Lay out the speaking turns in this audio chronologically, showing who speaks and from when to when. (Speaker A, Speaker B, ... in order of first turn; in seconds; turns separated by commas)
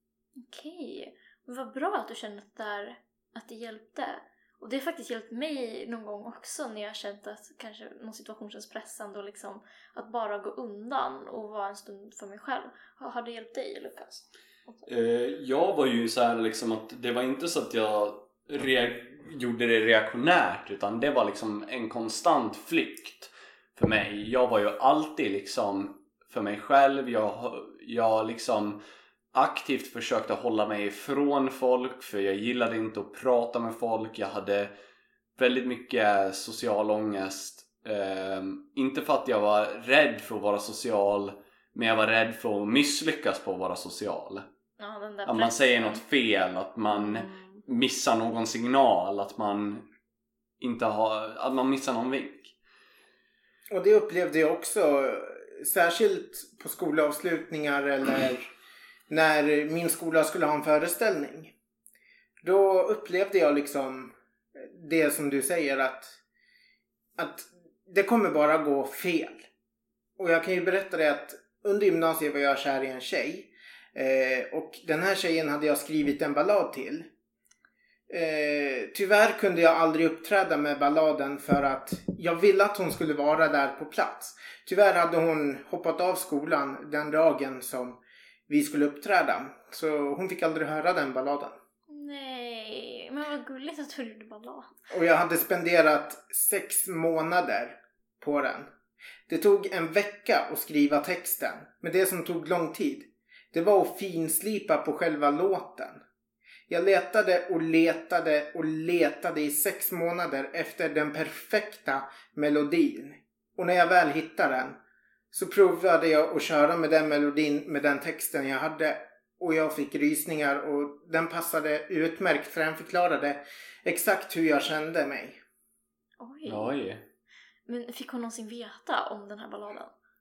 Speaker A: 0.4-14.9, Speaker B: 14.8-28.8, Speaker B: 29.3-34.7, Speaker B: 35.4-44.5, Speaker A: 44.8-46.0, Speaker B: 45.2-49.9, Speaker A: 46.9-47.6, Speaker B: 50.6-52.5, Speaker C: 53.7-58.5, Speaker C: 59.1-61.5, Speaker C: 62.4-66.2, Speaker C: 67.2-69.5, Speaker C: 70.2-77.1, Speaker C: 78.1-91.5, Speaker A: 91.9-94.8, Speaker C: 94.9-98.7, Speaker C: 99.3-106.0, Speaker C: 106.7-114.8, Speaker C: 115.3-125.4, Speaker A: 126.2-126.7, Speaker B: 126.5-127.0, Speaker A: 127.7-129.9